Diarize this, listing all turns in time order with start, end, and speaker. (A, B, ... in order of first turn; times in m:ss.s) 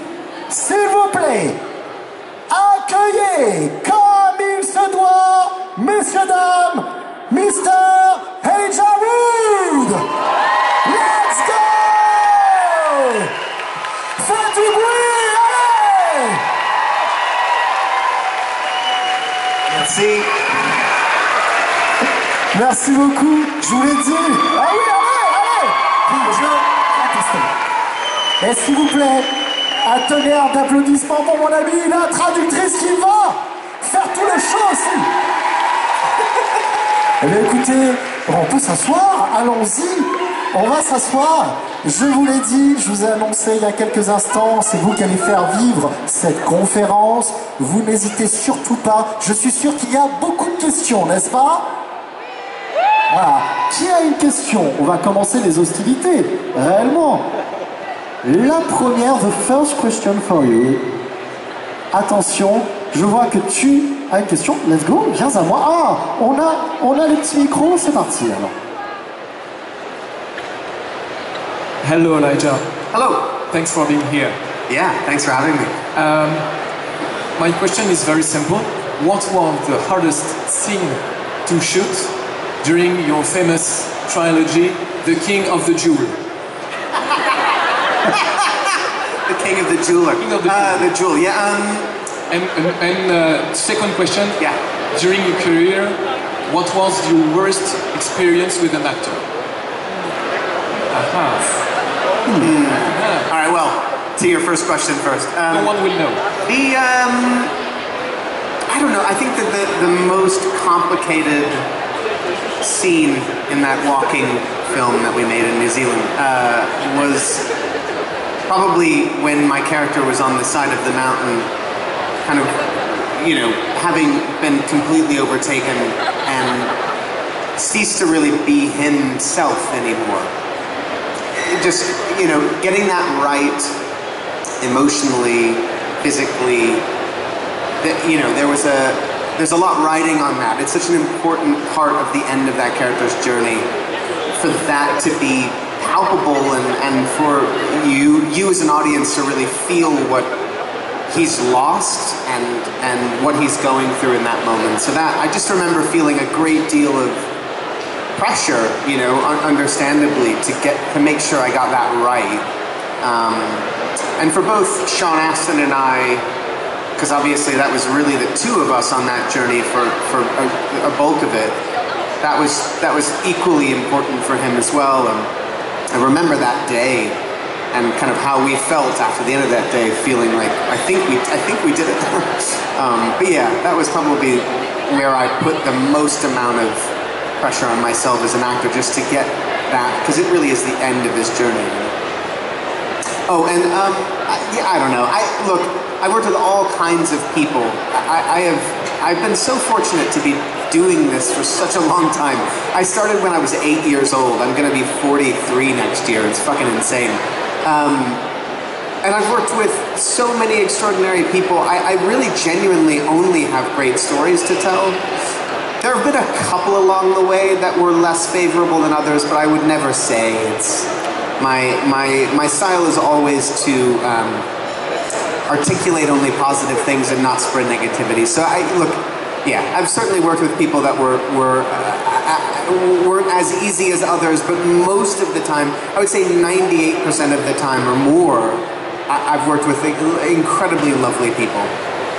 0:00.5-0:01.6 A
0:02.5-0:10.1 A
0:10.8-0:13.3 A
0:14.2-0:16.4 A
0:19.7-0:20.3 B
0:22.5-0:27.5 A
0:28.4-0:29.3 A
0:29.8-0:35.1 A
0:37.2-0:51.7 A
0:53.1-0:57.3 A
0:58.2-1:00.8 A
1:01.9-1:08.6 A
1:11.8-1:12.6 C
1:12.9-1:13.2 B
1:13.4-1:14.4 C
1:14.7-1:15.8 B
1:15.9-1:16.5 C
1:17.4-1:26.2 C
1:29.3-1:31.9 B
1:30.2-1:30.9 C
1:32.3-1:34.4 C
1:34.9-1:39.3 C
1:40.9-1:41.6 C
1:42.3-1:43.3 C
1:42.3-1:45.7 B
1:45.5-1:46.2 C
1:46.4-1:47.5 B
1:48.7-1:51.7 B
1:52.6-1:57.4 B
1:58.5-2:01.5 B
2:02.2-2:06.7 B
2:07.6-2:10.3 B
2:11.3-2:13.7 B
2:14.6-2:16.8 B
2:17.8-2:23.7 B
2:24.4-2:30.3 B
2:31.1-2:37.3 B
2:38.2-2:42.4 B
2:43.0-2:46.2 B
2:47.0-2:51.6 B
2:52.2-2:55.3 B
2:55.9-2:57.2 B
2:57.7-3:11.9 B
3:13.3-3:28.2 B
3:29.0-3:35.0 B
3:35.8-3:44.5 B
3:45.5-4:01.7 B